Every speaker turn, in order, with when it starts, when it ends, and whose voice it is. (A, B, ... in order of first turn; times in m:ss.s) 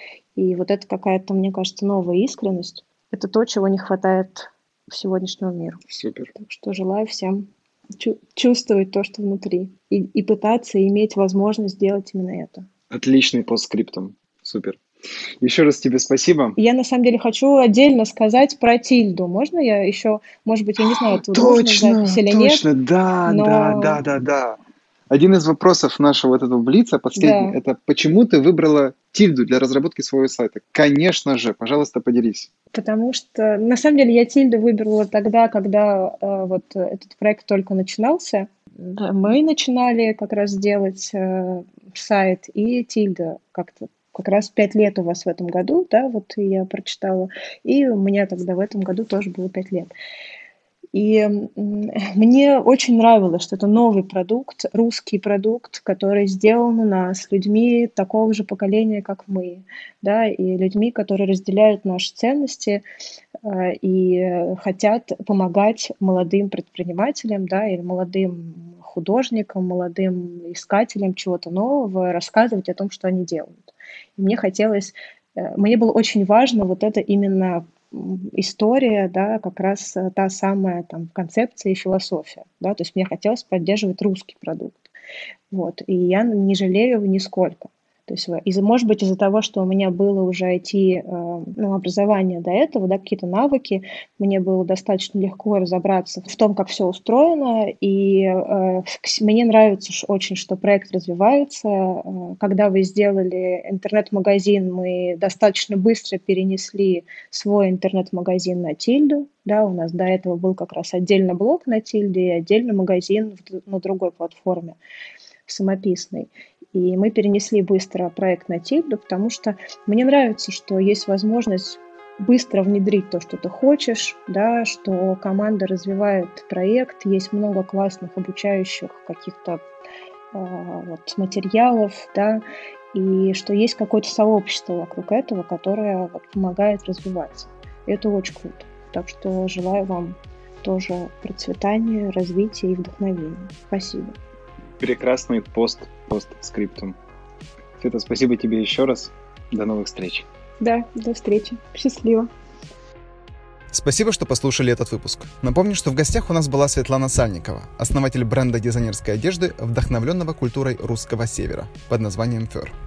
0:00.4-0:05.8 A
0:05.9-0:06.3 B
0:06.3-0:07.5 A
0:08.0-0:12.7 A
0:12.9-0:14.8 B
0:15.4-0:16.6 B
0:16.6-0:22.6 A
0:20.9-0:24.6 B
0:23.2-0:24.0 A
0:25.1-0:32.5 B
0:27.2-0:27.6 A
0:32.7-0:49.9 A
0:50.9-1:02.8 A
1:03.4-1:24.9 A
1:25.5-1:54.8 A
1:55.4-2:09.6 A
2:10.3-2:24.2 A
2:24.8-2:27.0 B
2:27.8-2:30.2 B
2:30.6-2:32.3 A
2:33.7-2:42.7 C